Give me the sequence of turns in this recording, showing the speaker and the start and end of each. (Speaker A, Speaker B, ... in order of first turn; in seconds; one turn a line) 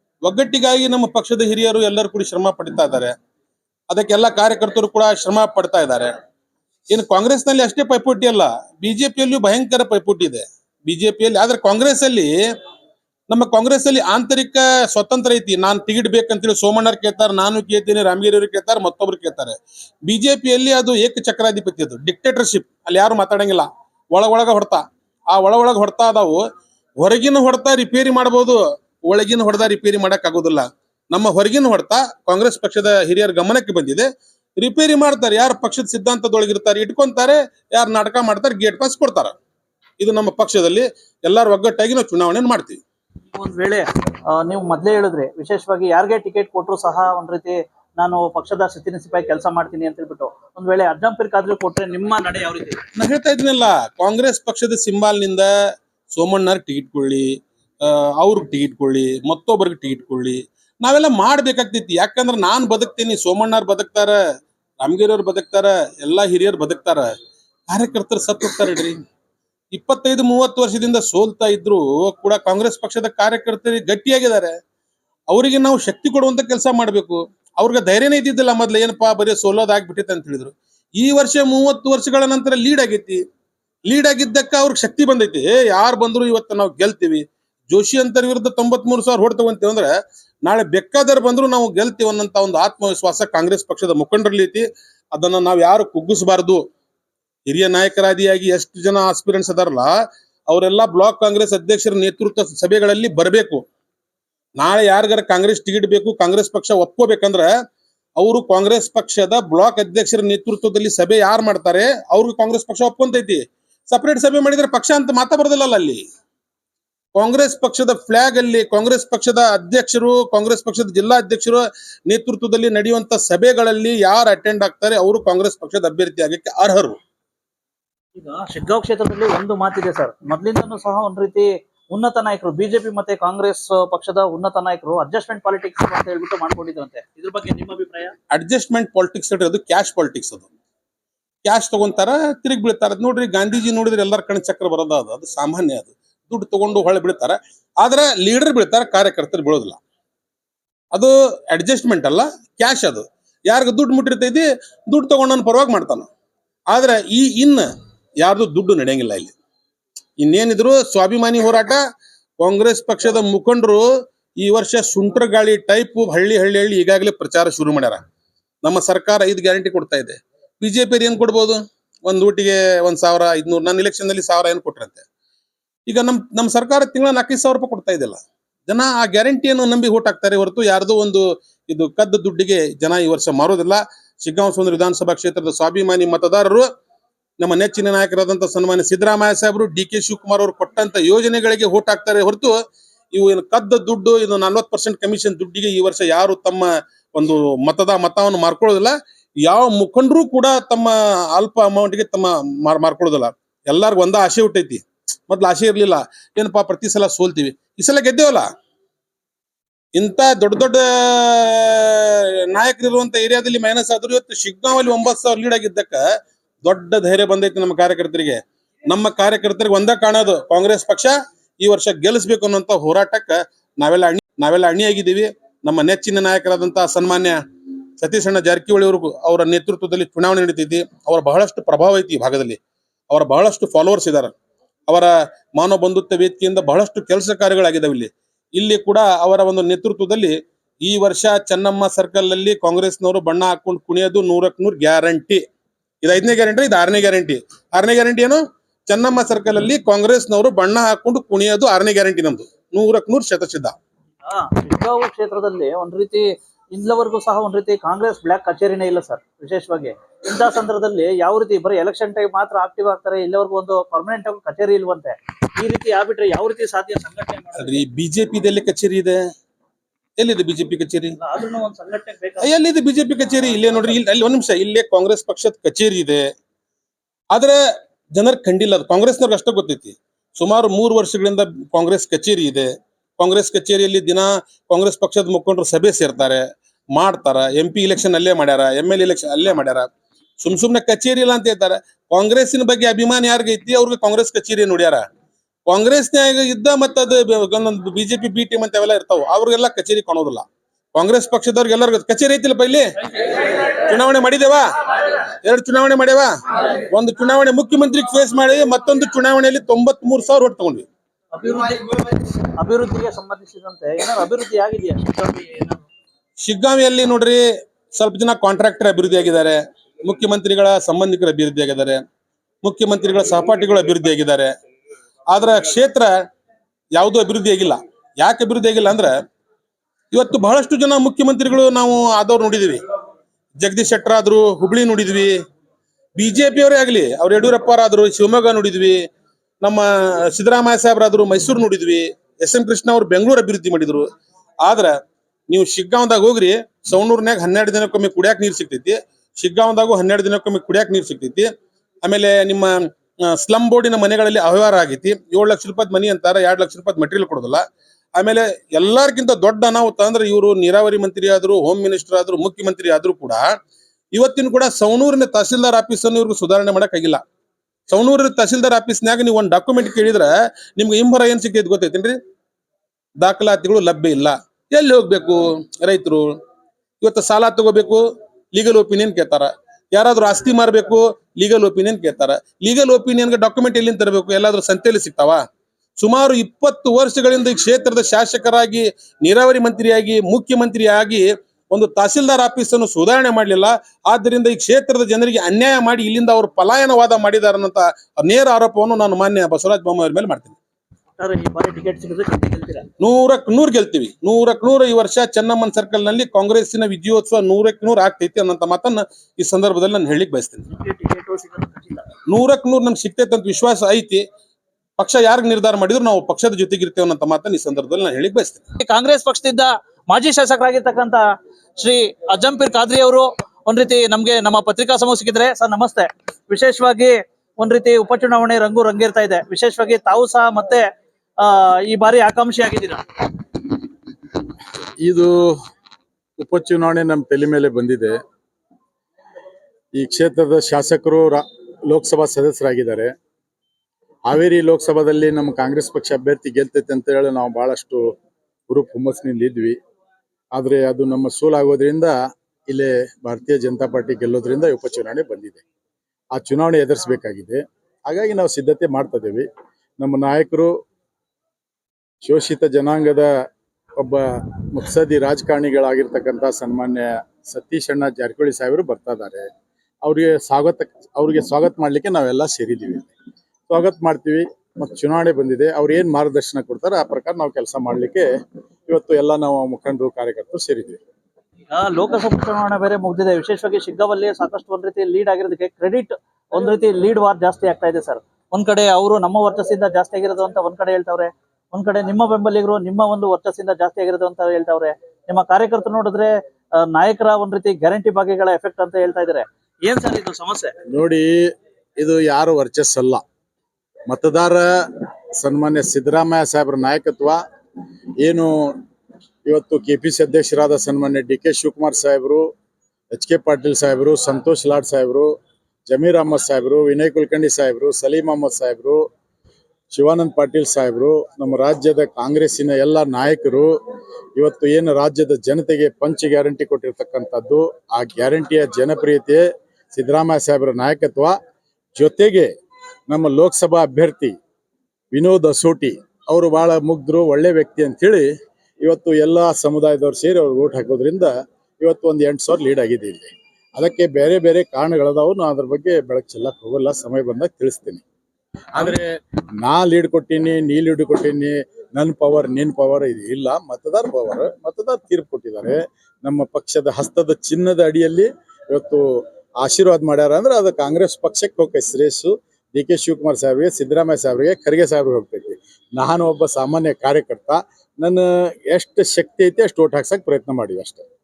Speaker A: 0.2-3.1
Speaker A: 3.9-6.1
Speaker A: 6.9-12.3
Speaker A: 13.3-26.4
Speaker A: 27.0-34.0
Speaker A: 34.6-39.3
Speaker A: 40.0-42.8
Speaker B: 43.3-52.8
Speaker A: 53.0-55.5
Speaker A: 56.1-57.3
Speaker A: 57.8-64.1
Speaker A: 64.8-67.1
Speaker A: 67.7-69.0
Speaker A: 69.7-74.6
Speaker A: 75.3-83.2
Speaker A: 83.9-89.9
Speaker A: 90.4-96.6
Speaker A: 97.5-99.9
Speaker A: 100.5-103.6
Speaker A: 104.6-107.5
Speaker A: 108.2-116.0
Speaker A: 117.1-127.0
Speaker B: 128.2-138.1
Speaker A: 138.3-140.5
Speaker A: 141.4-149.8
Speaker A: 150.9-156.1
Speaker A: 156.7-157.7
Speaker A: 158.2-159.3
Speaker A: 160.2-161.8
Speaker A: 162.4-163.8
Speaker A: 164.4-168.0
Speaker A: 168.6-175.0
Speaker A: 175.9-186.7
Speaker A: 187.4-192.5
Speaker A: 193.1-208.4
Speaker A: 209.9-216.0
Speaker A: 216.6-227.4
Speaker A: 228.0-232.6
Speaker A: 233.1-234.3
Speaker A: 234.9-245.4
Speaker A: 246.0-253.8
Speaker B: 254.2-267.8
Speaker A: 267.6-269.2
Speaker A: 270.2-271.2
Speaker B: 271.2-272.5
Speaker A: 272.4-276.2
Speaker B: 273.3-274.0
Speaker A: 278.1-282.7
Speaker A: 283.2-286.4
Speaker A: 286.9-289.9
Speaker A: 290.4-295.0
Speaker A: 295.7-310.9
Speaker B: 311.3-315.8
Speaker A: 316.4-322.0
Speaker A: 322.6-324.5
Speaker A: 325.3-326.1
Speaker A: 326.9-329.1
Speaker A: 330.1-332.8
Speaker A: 333.6-335.3
Speaker A: 336.1-338.9
Speaker A: 339.6-344.1
Speaker A: 344.6-344.9
Speaker A: 345.5-351.5
Speaker A: 352.0-352.7
Speaker A: 353.3-357.6
Speaker A: 358.2-363.4
Speaker A: 364.1-367.2
Speaker A: 367.9-372.1
Speaker A: 373.2-376.3
Speaker A: 377.0-385.4
Speaker A: 386.0-400.6
Speaker B: 401.2-402.9
Speaker A: 403.0-410.7
Speaker B: 410.7-412.1
Speaker A: 412.3-414.2
Speaker A: 415.0-418.6
Speaker B: 418.8-421.2
Speaker B: 421.8-430.9
Speaker B: 431.4-433.0
Speaker C: 435.0-435.5
Speaker C: 436.4-438.1
Speaker C: 439.9-443.1
Speaker C: 444.3-448.1
Speaker C: 448.7-449.8
Speaker C: 450.5-452.1
Speaker C: 452.7-455.6
Speaker C: 456.3-459.4
Speaker C: 460.0-460.7
Speaker C: 462.2-463.3
Speaker C: 463.9-469.5
Speaker C: 470.0-473.1
Speaker C: 473.7-478.2
Speaker C: 478.9-481.0
Speaker B: 481.7-496.3
Speaker B: 496.9-500.7
Speaker C: 500.9-501.3
Speaker C: 502.0-503.2
Speaker C: 504.1-504.6
Speaker C: 505.4-507.4
Speaker C: 508.2-508.8
Speaker C: 509.4-512.4
Speaker C: 513.1-515.3
Speaker C: 515.9-519.0
Speaker C: 519.9-523.7
Speaker C: 524.4-531.3
Speaker C: 531.9-532.5
Speaker C: 533.1-534.3
Speaker C: 535.1-538.3
Speaker C: 538.8-548.0
Speaker C: 548.8-549.0
Speaker C: 549.6-571.0